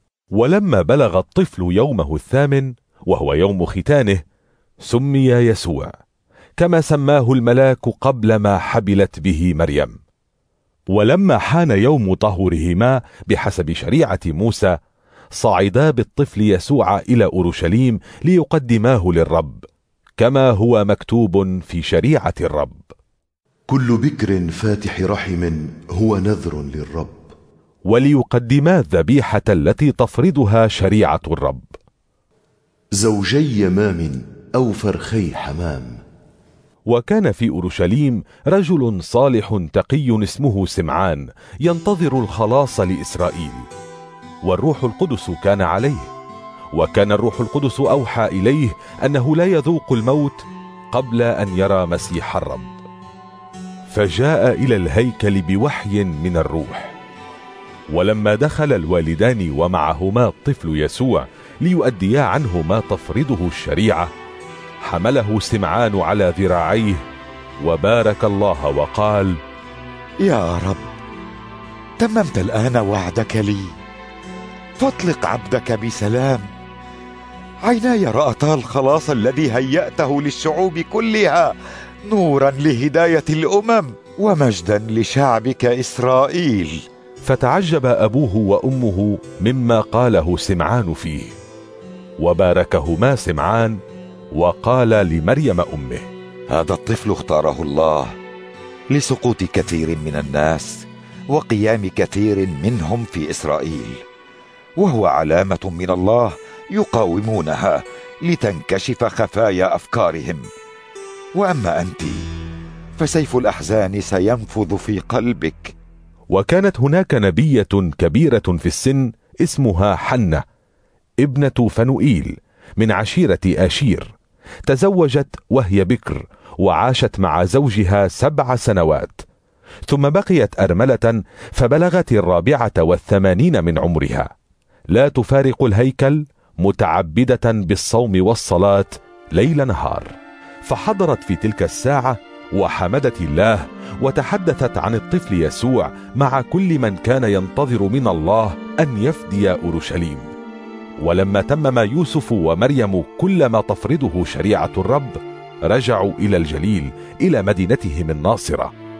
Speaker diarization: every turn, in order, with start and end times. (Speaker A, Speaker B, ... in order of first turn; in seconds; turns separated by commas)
Speaker A: 0.3-4.2, Speaker A: 4.9-5.9, Speaker A: 6.6-10.0, Speaker A: 10.9-14.7, Speaker A: 15.4-19.6, Speaker A: 20.2-22.8, Speaker B: 23.7-27.2, Speaker A: 27.9-31.7, Speaker B: 33.0-36.0, Speaker A: 36.9-43.6, Speaker A: 44.5-46.1, Speaker A: 46.7-52.7, Speaker A: 53.9-56.9, Speaker A: 57.9-64.1, Speaker A: 64.8-67.0, Speaker A: 67.6-69.4, Speaker C: 70.2-70.8, Speaker C: 72.0-73.7, Speaker C: 74.8-76.5, Speaker C: 77.6-81.5, Speaker C: 82.1-86.8, Speaker A: 87.2-91.3, Speaker A: 92.2-93.8, Speaker A: 94.3-96.1, Speaker C: 96.5-98.1, Speaker C: 98.9-104.0, Speaker C: 104.8-110.5, Speaker C: 111.3-112.2, Speaker C: 113.0-115.7, Speaker A: 116.3-120.4, Speaker A: 121.2-124.1, Speaker A: 124.7-129.2, Speaker A: 129.9-134.3, Speaker A: 134.9-140.1, Speaker A: 140.7-150.3, Speaker A: 151.0-158.7